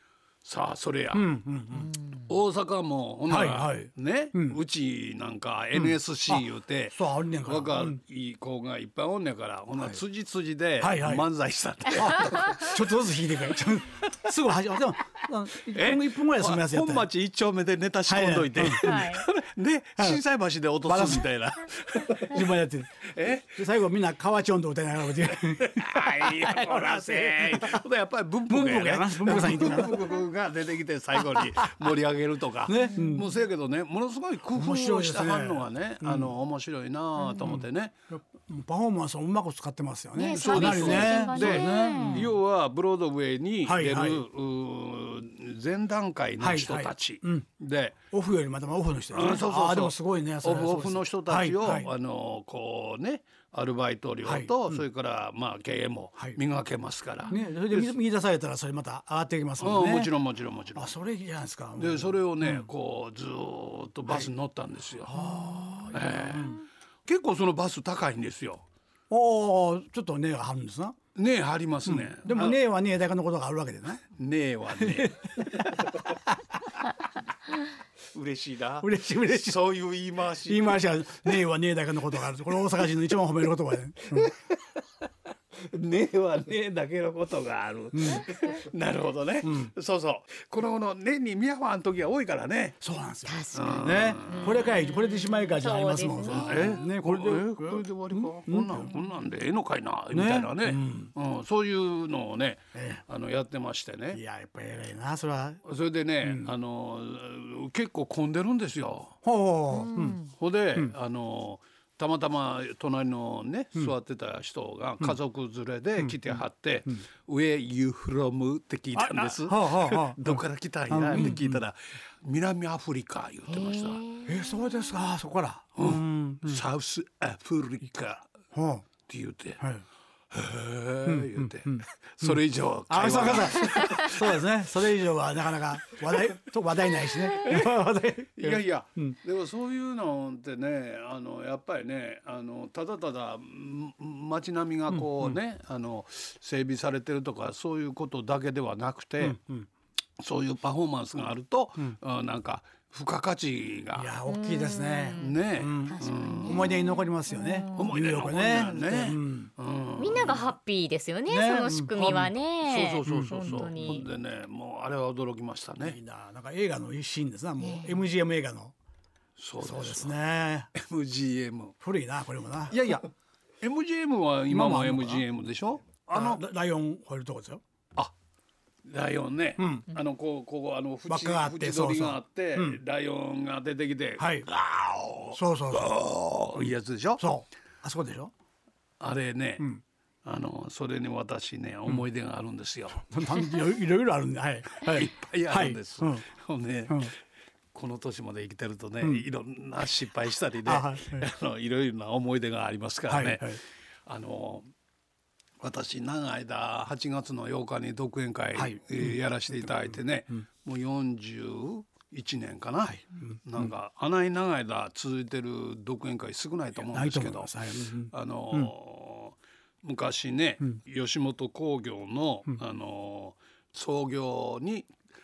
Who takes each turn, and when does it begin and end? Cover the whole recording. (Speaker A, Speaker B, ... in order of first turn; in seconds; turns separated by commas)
Speaker A: 0.4-1.4, Speaker B: 1.1-1.9, Speaker A: 2.2-12.9, Speaker B: 3.3-4.6, Speaker B: 5.7-8.0, Speaker B: 9.7-10.0, Speaker B: 10.8-11.3, Speaker B: 11.8-17.1, Speaker A: 15.7-22.4, Speaker B: 18.1-19.0, Speaker C: 18.8-19.2, Speaker B: 20.0-20.2, Speaker B: 20.8-21.3, Speaker B: 22.3-27.8, Speaker A: 23.1-23.6, Speaker A: 25.3-37.9, Speaker B: 28.5-30.2, Speaker B: 31.2-31.9, Speaker B: 32.6-33.3, Speaker C: 32.8-33.1, Speaker B: 34.5-36.4, Speaker B: 37.4-42.3, Speaker C: 40.1-42.3, Speaker A: 40.3-48.0, Speaker B: 43.6-44.2, Speaker B: 46.4-47.5, Speaker B: 48.1-51.9, Speaker A: 49.1-58.0, Speaker B: 54.2-54.8, Speaker B: 57.3-60.1, Speaker A: 59.6-61.0, Speaker B: 60.7-62.7, Speaker A: 61.8-65.2, Speaker B: 65.0-66.6, Speaker A: 65.9-68.6, Speaker B: 69.1-71.0, Speaker A: 71.1-72.6, Speaker B: 71.8-74.0, Speaker A: 74.1-75.4, Speaker B: 74.8-76.0, Speaker A: 78.1-81.4, Speaker B: 78.8-79.6, Speaker B: 80.5-84.3, Speaker A: 84.1-84.5, Speaker A: 85.6-92.8, Speaker B: 87.9-88.2, Speaker B: 89.4-89.7, Speaker B: 92.8-98.9, Speaker C: 93.2-96.8, Speaker A: 93.5-94.6, Speaker A: 96.3-104.2, Speaker B: 100.1-101.1, Speaker B: 102.7-103.0, Speaker B: 104.1-105.6, Speaker A: 105.6-109.2, Speaker B: 106.2-106.5, Speaker B: 109.2-110.2, Speaker C: 109.7-110.3, Speaker A: 110.3-124.0, Speaker B: 116.0-116.3, Speaker B: 118.9-121.6, Speaker C: 123.5-124.4, Speaker B: 124.2-126.6, Speaker A: 125.8-128.3, Speaker B: 128.5-128.8, Speaker A: 129.1-129.6, Speaker B: 129.6-129.8, Speaker A: 130.3-134.3, Speaker B: 131.0-139.2, Speaker A: 137.3-137.8, Speaker A: 138.4-149.4, Speaker B: 144.9-145.4, Speaker B: 149.2-149.7, Speaker A: 150.2-154.2, Speaker B: 153.9-159.5, Speaker C: 154.2-157.9, Speaker A: 155.2-156.7, Speaker A: 157.7-160.5, Speaker C: 160.0-164.1, Speaker B: 161.3-162.3, Speaker A: 162.0-166.0, Speaker B: 163.0-163.9, Speaker B: 165.8-168.7, Speaker C: 167.6-168.0, Speaker A: 169.4-170.2, Speaker B: 169.6-170.7, Speaker A: 170.7-171.8, Speaker B: 171.8-173.0, Speaker A: 172.7-173.1, Speaker A: 173.6-176.4, Speaker B: 174.5-175.2, Speaker B: 176.1-177.6, Speaker A: 178.8-187.2, Speaker B: 179.6-179.8, Speaker B: 181.1-182.8, Speaker B: 184.2-184.5, Speaker B: 185.2-186.0, Speaker B: 186.5-188.3, Speaker A: 189.0-189.7, Speaker A: 190.2-193.1, Speaker B: 193.0-196.3, Speaker A: 194.8-197.1, Speaker B: 196.9-197.1, Speaker A: 197.7-203.5, Speaker B: 200.6-201.2, Speaker B: 203.1-203.6, Speaker A: 204.1-204.7, Speaker A: 205.6-217.6, Speaker B: 208.5-209.9, Speaker B: 212.8-213.7, Speaker B: 216.9-218.7, Speaker A: 218.1-224.9